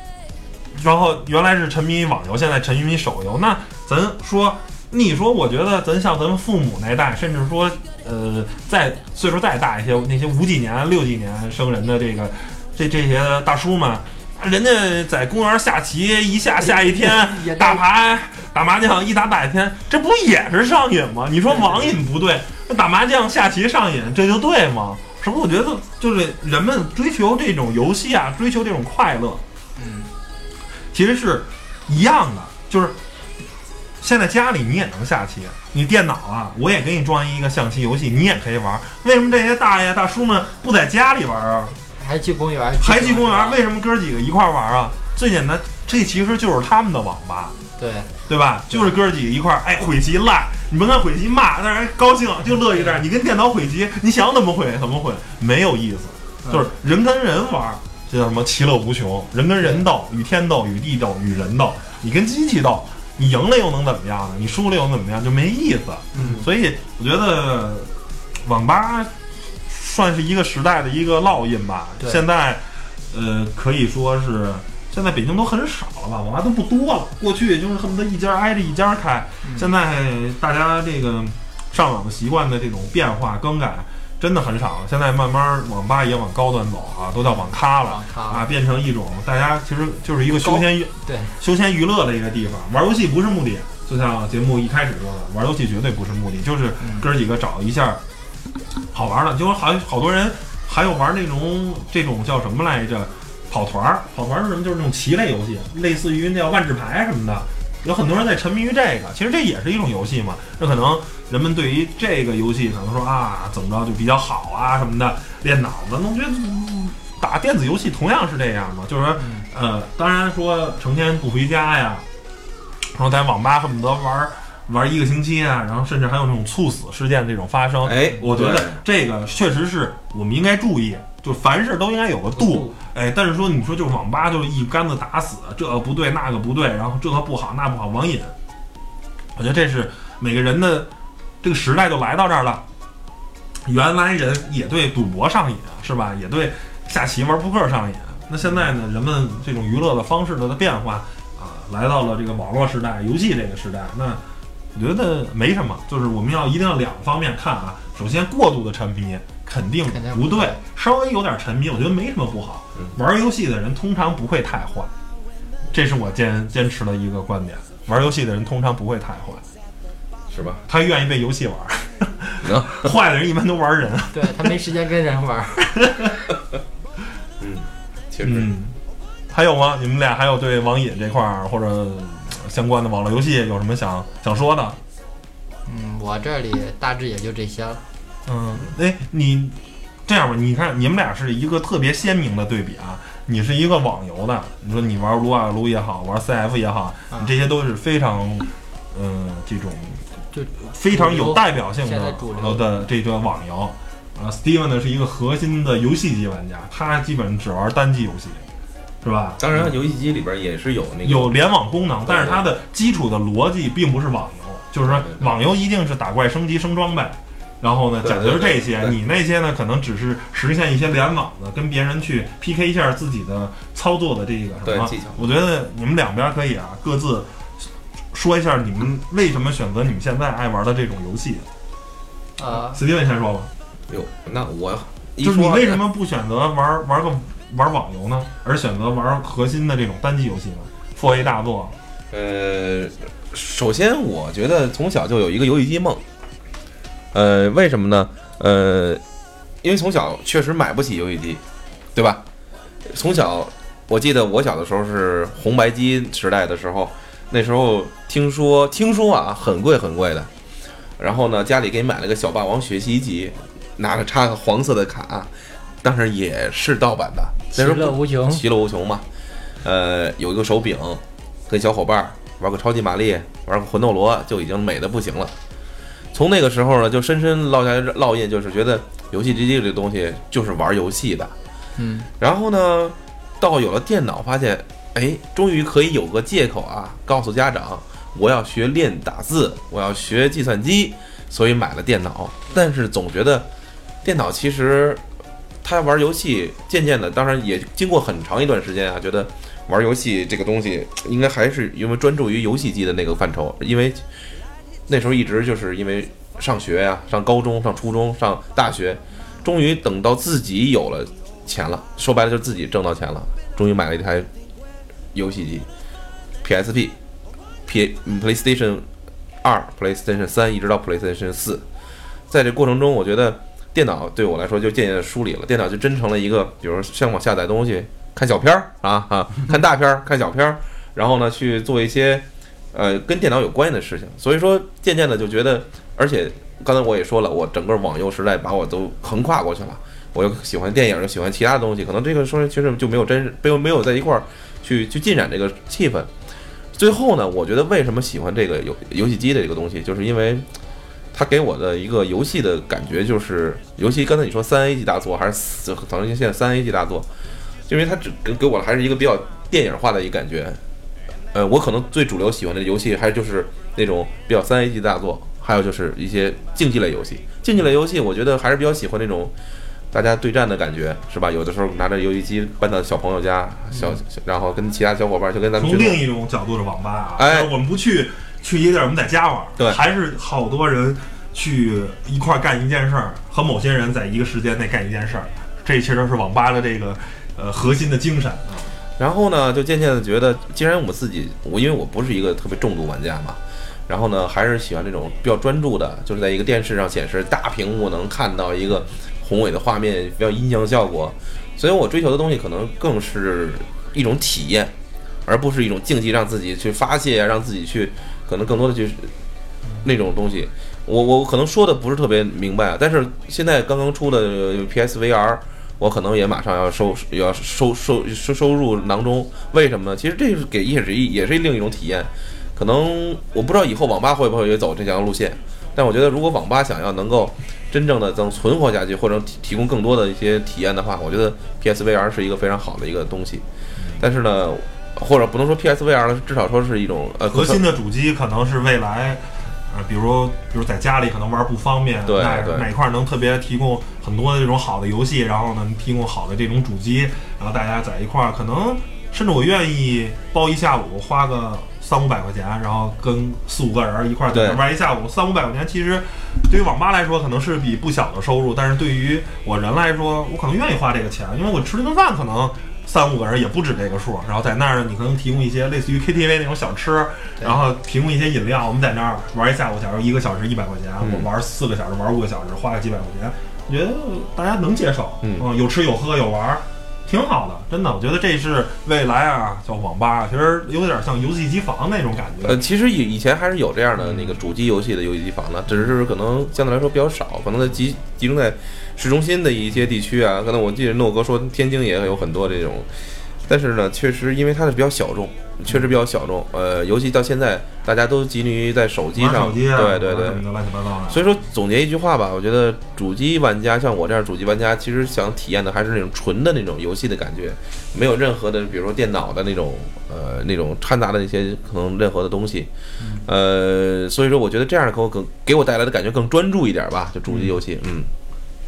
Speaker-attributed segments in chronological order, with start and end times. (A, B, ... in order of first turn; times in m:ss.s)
0:00.7-0:29.4 A
0:16.6-0:17.8 B
0:21.5-0:21.9 B
0:29.8-0:30.1 B
0:30.9-0:33.0 A
0:34.0-0:41.8 A
0:42.0-0:43.6 B
0:42.8-0:47.6 A
0:47.8-0:48.1 B
0:48.3-1:38.0 A
0:52.7-0:53.0 B
0:59.6-0:59.8 B
1:06.1-1:06.5 B
1:19.4-1:19.7 B
1:27.4-1:28.5 B
1:30.4-1:31.4 B
1:36.8-1:37.1 B
1:38.9-2:02.0 A
1:59.2-1:59.5 B
2:02.9-2:18.4 A
2:07.8-2:08.8 C
2:12.4-2:12.8 B
2:19.4-2:20.9 A
2:21.4-2:22.6 A
2:23.6-2:34.2 A
2:34.8-2:44.9 A
2:39.9-2:40.6 B
2:45.7-2:49.4 A
2:50.3-2:50.6 C
2:50.7-2:54.5 A
2:52.4-2:52.9 C
2:54.1-2:55.7 B
2:55.7-2:56.2 A
2:57.4-2:58.5 C
2:58.2-2:58.8 A
2:59.3-3:04.8 A
3:05.7-3:07.8 B
3:08.3-3:20.1 A
3:20.3-3:22.6 B
3:20.6-3:28.4 A
3:29.0-3:29.7 A
3:29.4-3:31.3 C
3:31.0-3:47.3 A
3:32.1-3:32.4 C
3:34.8-3:35.3 C
3:38.0-3:39.0 C
3:44.6-3:45.3 C
3:48.1-3:51.5 A
3:52.4-3:52.8 B
3:52.5-3:53.5 A
3:53.9-3:55.8 C
3:55.2-4:01.8 A
4:01.1-4:01.4 C
4:02.1-4:06.0 C
4:07.1-4:09.0 C
4:09.6-4:11.4 C
4:12.0-4:12.2 C
4:12.9-4:20.3 C
4:21.0-4:25.3 C
4:25.8-4:29.0 C
4:27.5-4:28.4 B
4:29.6-4:35.4 C
4:36.1-4:41.3 C
4:41.8-4:42.1 B
4:42.2-4:53.5 C
4:54.0-4:55.0 C
4:55.6-5:04.0 C
5:04.9-5:14.3 C
5:15.1-5:15.7 C
5:16.4-5:17.0 C
5:17.7-5:18.9 C
5:19.4-5:21.6 C
5:22.3-5:46.1 C
5:46.8-5:50.5 C
5:51.1-5:57.1 C
5:57.7-6:00.6 C
6:01.3-6:09.3 C
6:09.9-6:16.0 C
6:13.7-6:14.0 B
6:15.6-6:28.7 A
6:17.2-6:17.5 C
6:29.0-6:44.7 C
6:45.3-6:49.1 C
6:49.8-7:13.4 C
7:14.0-7:17.6 C
7:17.3-8:02.6 A
7:22.1-7:22.7 C
7:34.3-7:34.6 C
7:51.0-7:51.3 C
7:55.2-7:55.5 C
8:02.4-8:12.9 C
8:04.0-8:04.4 A
8:13.4-8:20.4 C
8:19.2-8:21.2 A
8:21.1-8:32.7 C
8:33.0-8:33.2 B
8:33.2-8:38.1 C
8:37.3-8:37.6 A